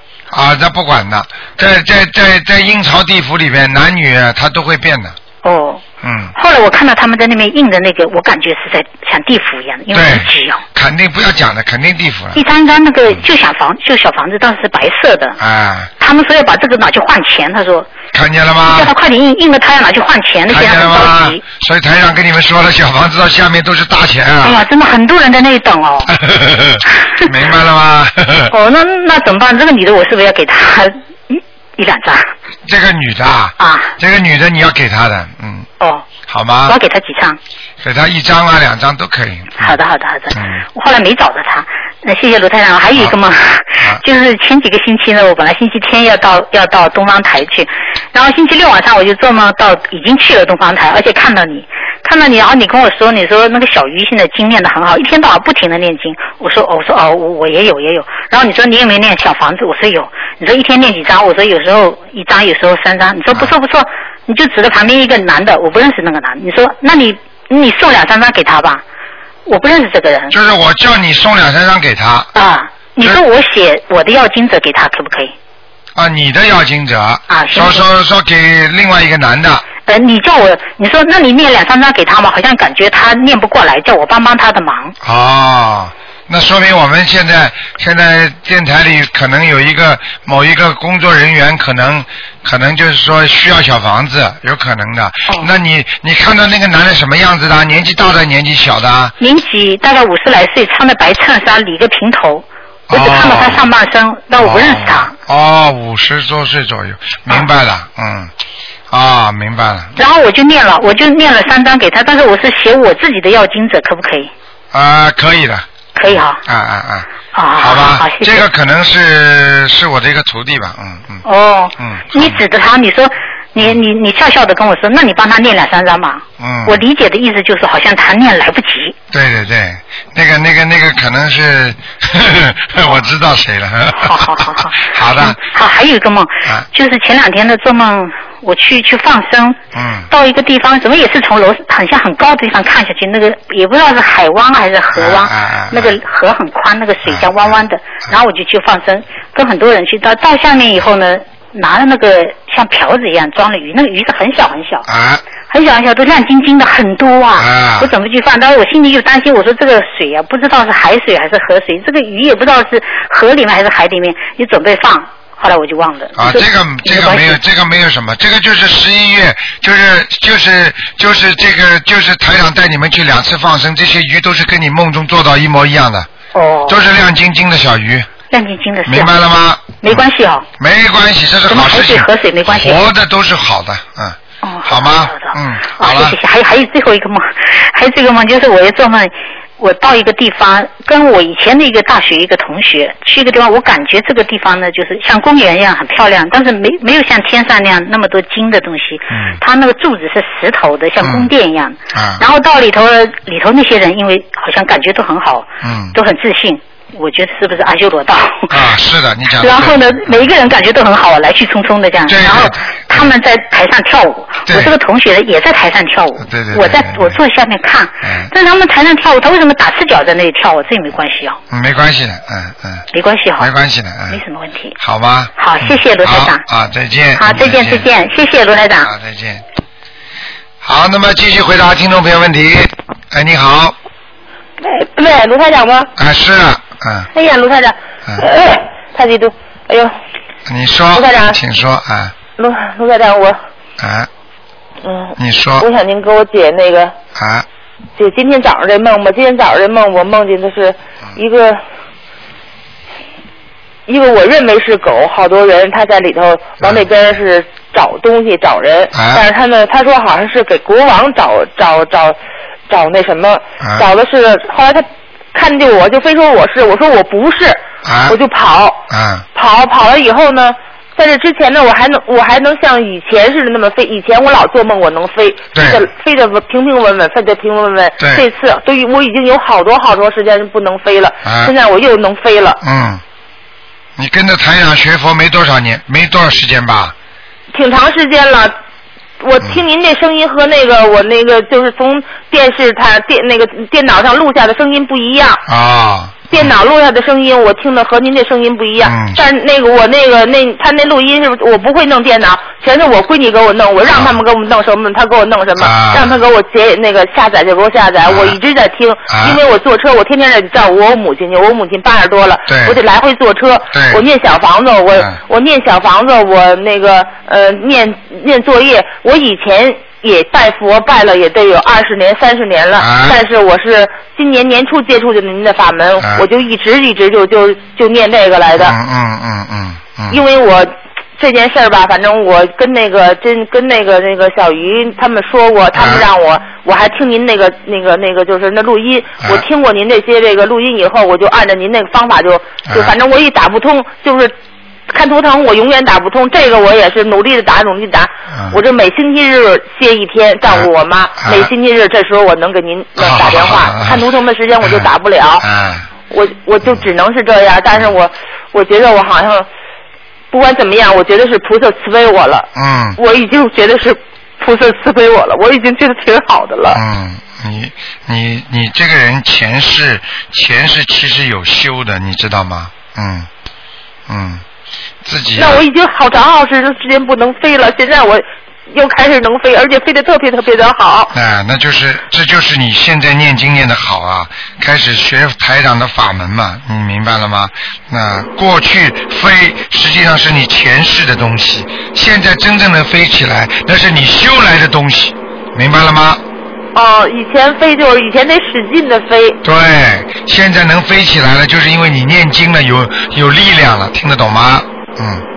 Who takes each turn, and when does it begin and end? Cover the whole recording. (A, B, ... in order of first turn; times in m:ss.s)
0:00.3-0:05.2 A
0:05.4-0:05.8 B
0:06.0-0:06.3 A
0:06.4-0:10.6 B
0:09.9-0:12.4 A
0:12.4-0:15.4 B
0:15.4-0:15.9 A
0:16.0-0:17.9 B
0:18.1-0:18.9 A
0:18.6-0:21.4 B
0:20.5-0:24.6 A
0:24.4-0:26.1 B
0:26.1-0:28.5 A
0:28.5-0:32.3 B
0:32.6-0:35.7 A
0:33.6-0:33.9 B
0:35.8-0:36.1 B
0:36.3-0:36.8 A
0:36.6-0:37.4 B
0:37.8-0:39.8 A
0:39.6-1:08.8 B
0:40.3-0:40.6 A
1:09.4-1:10.4 B
1:10.3-1:12.3 A
1:12.3-1:15.4 B
1:16.0-1:19.6 A
1:17.3-1:17.9 B
1:19.9-1:25.0 B
1:25.0-1:39.1 A
1:39.2-1:45.1 B
1:42.9-1:43.6 A
1:44.4-1:48.3 A
1:48.9-1:49.9 A
1:50.0-1:54.3 B
1:54.7-2:01.2 A
1:55.9-1:56.4 B
1:57.3-1:58.5 B
2:01.2-2:09.0 B
2:01.8-2:02.4 A
2:06.4-2:06.8 A
2:09.1-2:15.4 A
2:13.9-2:34.9 B
2:19.7-2:20.1 A
2:24.9-2:26.0 A
2:27.1-2:27.6 A
2:34.9-2:35.2 A
2:35.5-2:47.4 B
2:37.4-2:37.9 A
2:46.2-2:56.1 A
2:56.3-2:56.8 B
2:56.7-2:58.1 A
2:58.3-2:59.1 B
2:58.9-3:00.0 A
2:59.8-3:00.5 B
3:00.6-3:06.2 A
3:01.5-3:02.8 B
3:04.4-3:28.6 B
3:19.1-3:19.4 A
3:21.0-3:21.3 A
3:21.9-3:22.2 A
3:25.6-3:25.9 A
3:28.5-3:30.2 A
3:29.4-3:41.4 B
3:32.1-3:33.1 A
3:34.4-3:34.7 A
3:36.2-3:37.2 A
3:38.0-3:38.3 A
3:41.5-3:42.8 A
3:42.9-3:43.5 B
3:43.4-3:44.2 A
3:44.1-3:44.8 B
3:44.8-3:47.9 A
3:45.4-3:46.4 B
3:47.2-3:48.9 B
3:48.8-3:49.4 A
3:50.6-3:53.8 A
3:54.6-3:55.9 C
3:56.0-3:57.1 A
3:57.1-3:59.9 C
4:00.5-4:02.1 A
4:00.9-4:01.4 C
4:02.4-4:03.4 C
4:03.8-4:04.1 A
4:04.8-4:06.9 C
4:05.2-4:05.6 A
4:07.2-4:07.4 A
4:08.0-4:11.6 C
4:13.9-4:22.2 C
4:18.9-4:19.2 A
4:22.7-4:28.8 C
4:27.8-4:28.2 A
4:28.9-4:29.2 A
4:29.3-4:42.6 C
4:35.5-4:35.8 A
4:38.0-4:38.2 A
4:41.2-4:41.5 A
4:42.6-4:43.0 A
4:44.0-4:46.9 A
4:47.5-4:48.6 C
4:49.2-4:55.4 C
4:55.4-4:56.5 A
4:56.3-5:28.8 C
4:58.8-4:59.2 A
5:03.9-5:04.2 A
5:05.6-5:06.2 A
5:08.0-5:08.4 A
5:09.1-5:09.4 A
5:12.5-5:12.8 A
5:13.7-5:14.0 A
5:22.8-5:23.2 A
5:26.0-5:26.2 A
5:28.6-5:30.2 A
5:30.1-5:44.3 C
5:35.8-5:36.1 A
5:42.7-5:42.9 A
5:44.9-5:55.4 C
5:48.3-5:48.6 A
5:50.5-5:51.5 A
5:53.0-5:54.0 A
5:54.6-5:54.9 A
5:55.4-5:55.9 A
5:56.1-5:59.4 C
6:00.3-6:06.8 C
6:02.6-6:03.0 A
6:06.7-6:13.3 A
6:14.1-6:14.4 A
6:15.0-6:15.6 A
6:15.4-6:21.1 C
6:21.1-6:36.2 A
6:36.8-6:39.4 C
6:39.4-6:45.2 A